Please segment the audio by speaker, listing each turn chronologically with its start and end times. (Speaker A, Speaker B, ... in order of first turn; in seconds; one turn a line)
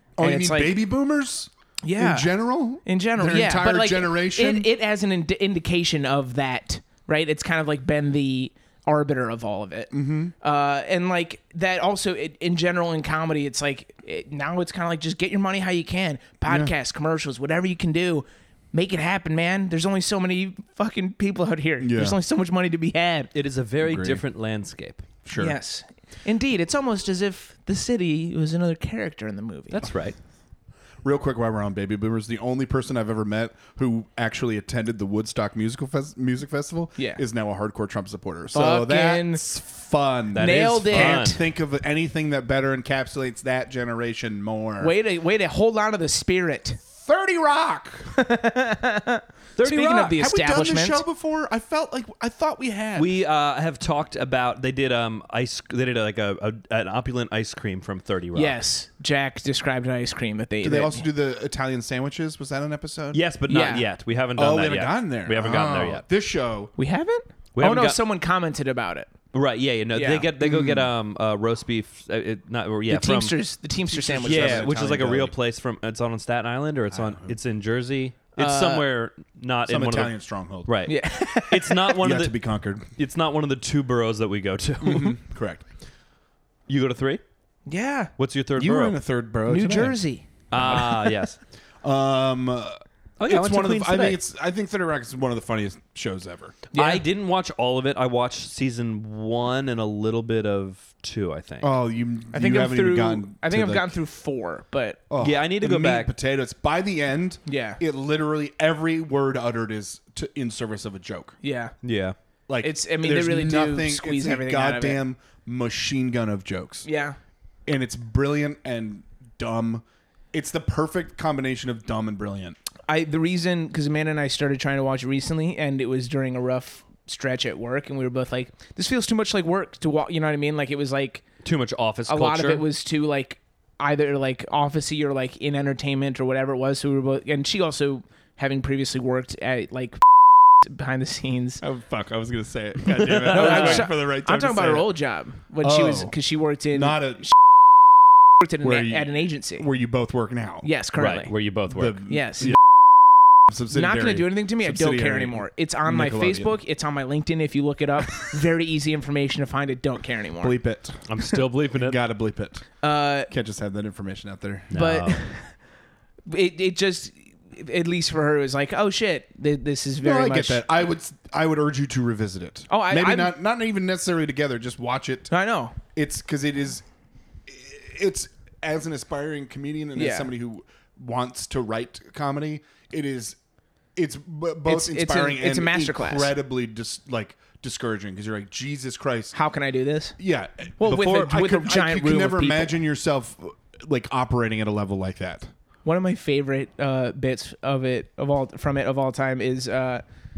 Speaker A: 0.2-4.7
Speaker B: 0.2-0.8
Speaker B: 1.8-23.3
Speaker A: 9.9-10.3
Speaker A: 16.5-16.7
Speaker A: 21.8-22.2
Speaker C: 23.3-25.1
Speaker A: 23.8-24.2
Speaker A: 25.2-25.6
Speaker B: 25.4-29.9
Speaker C: 29.7-30.1
Speaker A: 31.0-44.9
Speaker B: 38.5-39.4
Speaker C: 40.3-41.4
Speaker B: 40.3-41.4
Speaker B: 44.8-46.8
Speaker A: 46.9-48.2
Speaker B: 48.1-51.0
Speaker C: 49.6-50.1
Speaker A: 50.1-53.1
Speaker C: 52.9-58.6
Speaker B: 58.3-61.0
Speaker A: 60.6-63.2
Speaker C: 63.1-66.0
Speaker B: 63.5-63.9
Speaker A: 64.3-66.7
Speaker B: 66.8-69.1
Speaker C: 67.5-68.0
Speaker C: 69.3-73.3
Speaker B: 69.9-70.3
Speaker A: 70.4-70.9
Speaker B: 72.9-74.7
Speaker A: 73.9-75.3
Speaker C: 74.2-82.4
Speaker A: 76.9-77.3
Speaker B: 78.4-78.8
Speaker A: 79.7-80.7
Speaker B: 80.9-81.9
Speaker A: 82.0-82.9
Speaker C: 83.0-85.2
Speaker A: 84.8-85.6
Speaker C: 86.7-87.2
Speaker B: 87.7-88.1
Speaker C: 88.2-89.0
Speaker A: 88.5-90.0
Speaker B: 89.5-90.3
Speaker C: 90.5-91.4
Speaker A: 90.5-91.1
Speaker A: 91.8-96.6
Speaker C: 93.2-94.2
Speaker B: 96.7-97.0
Speaker C: 96.7-101.7
Speaker A: 101.6-103.9
Speaker B: 102.3-105.0
Speaker A: 105.1-111.4
Speaker C: 105.2-106.1
Speaker B: 107.5-107.8
Speaker B: 111.4-111.7
Speaker C: 111.8-112.2
Speaker A: 112.5-116.9
Speaker B: 112.6-115.0
Speaker B: 116.8-117.2
Speaker A: 117.7-122.6
Speaker B: 122.9-131.2
Speaker C: 131.4-132.6
Speaker B: 132.1-140.0
Speaker B: 140.6-141.6
Speaker A: 141.6-144.9
Speaker C: 143.0-143.9
Speaker B: 143.3-147.3
Speaker A: 145.6-146.1
Speaker A: 146.7-147.3
Speaker B: 148.4-149.7
Speaker A: 148.6-150.7
Speaker B: 150.6-151.3
Speaker C: 151.0-152.0
Speaker A: 151.7-152.6
Speaker B: 152.0-152.6
Speaker A: 153.5-156.5
Speaker B: 153.7-160.6
Speaker A: 160.4-161.2
Speaker C: 161.1-162.0
Speaker A: 161.7-162.8
Speaker B: 162.8-163.3
Speaker A: 163.3-164.7
Speaker C: 164.7-165.2
Speaker B: 164.7-165.5
Speaker B: 166.3-170.6
Speaker A: 170.0-175.3
Speaker B: 172.7-173.3
Speaker B: 175.3-175.8
Speaker A: 175.9-176.8
Speaker A: 177.5-183.4
Speaker B: 179.9-180.3
Speaker A: 183.9-189.3
Speaker B: 184.7-186.3
Speaker B: 189.3-190.2
Speaker A: 190.2-195.5
Speaker B: 190.8-192.8
Speaker B: 195.8-200.0